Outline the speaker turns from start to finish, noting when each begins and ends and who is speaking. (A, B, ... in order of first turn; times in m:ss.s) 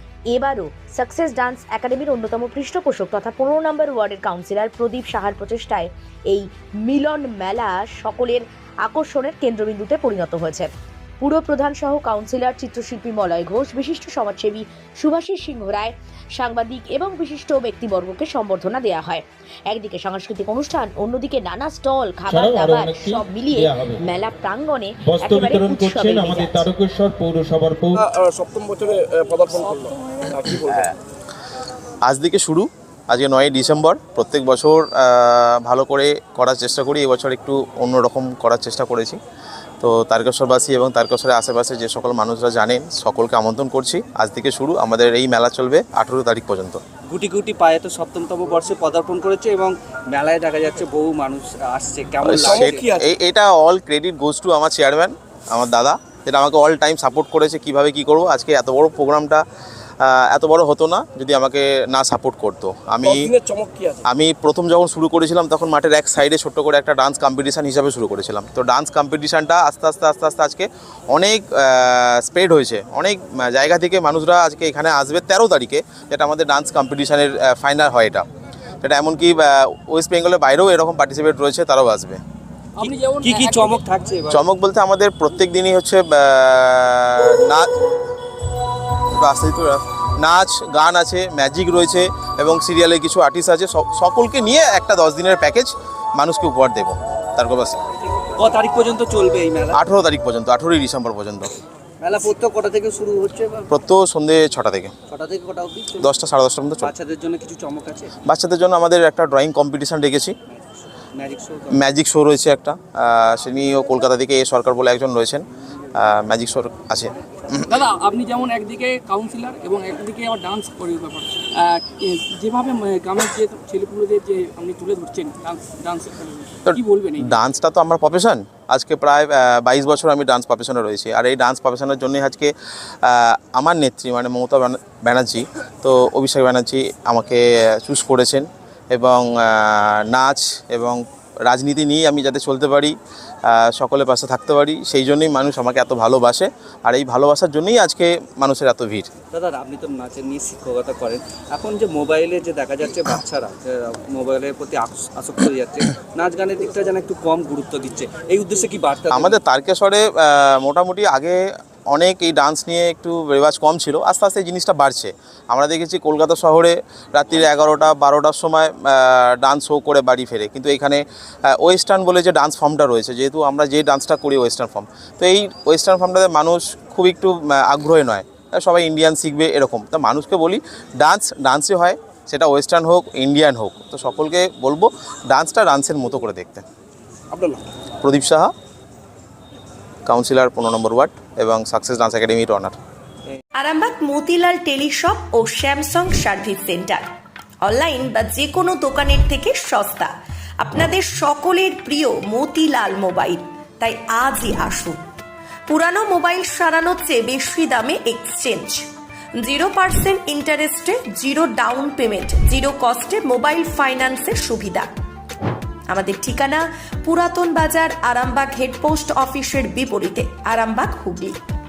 0:00.3-0:10.7 A
0:11.2-0:26.7 A
0:22.3-0:24.0 B
0:25.0-0:28.0 B
0:28.0-0:30.9 C
0:29.5-0:30.4 D
0:32.0-0:39.2 E
0:39.8-0:46.8 E
0:47.1-0:52.9 F
0:52.2-0:59.4 E
0:52.4-0:53.0 C
1:00.0-1:03.3 E
1:03.0-1:04.0 C
1:04.0-1:18.2 E
1:18.8-1:22.2 E
1:22.8-1:23.8 D
1:22.8-1:24.4 F
1:24.3-1:27.7 E
1:28.9-1:37.8 E
1:38.3-1:39.8 F
1:39.7-1:41.5 E
1:42.0-1:43.7 F
1:43.7-1:44.9 E
1:45.1-1:46.2 F
1:46.0-1:46.9 E
1:46.8-1:48.1 F
1:48.2-1:50.4 E
1:50.5-1:51.8 F
1:51.7-1:57.7 E
1:57.7-2:07.4 D
2:06.7-2:29.1 E
2:29.3-2:39.4 F
2:39.1-3:06.6 E
3:08.0-3:08.5 E
3:10.1-3:12.8 E
3:13.6-3:17.1 G
3:17.6-3:25.0 G
3:25.7-3:34.9 G
3:35.9-3:41.4 G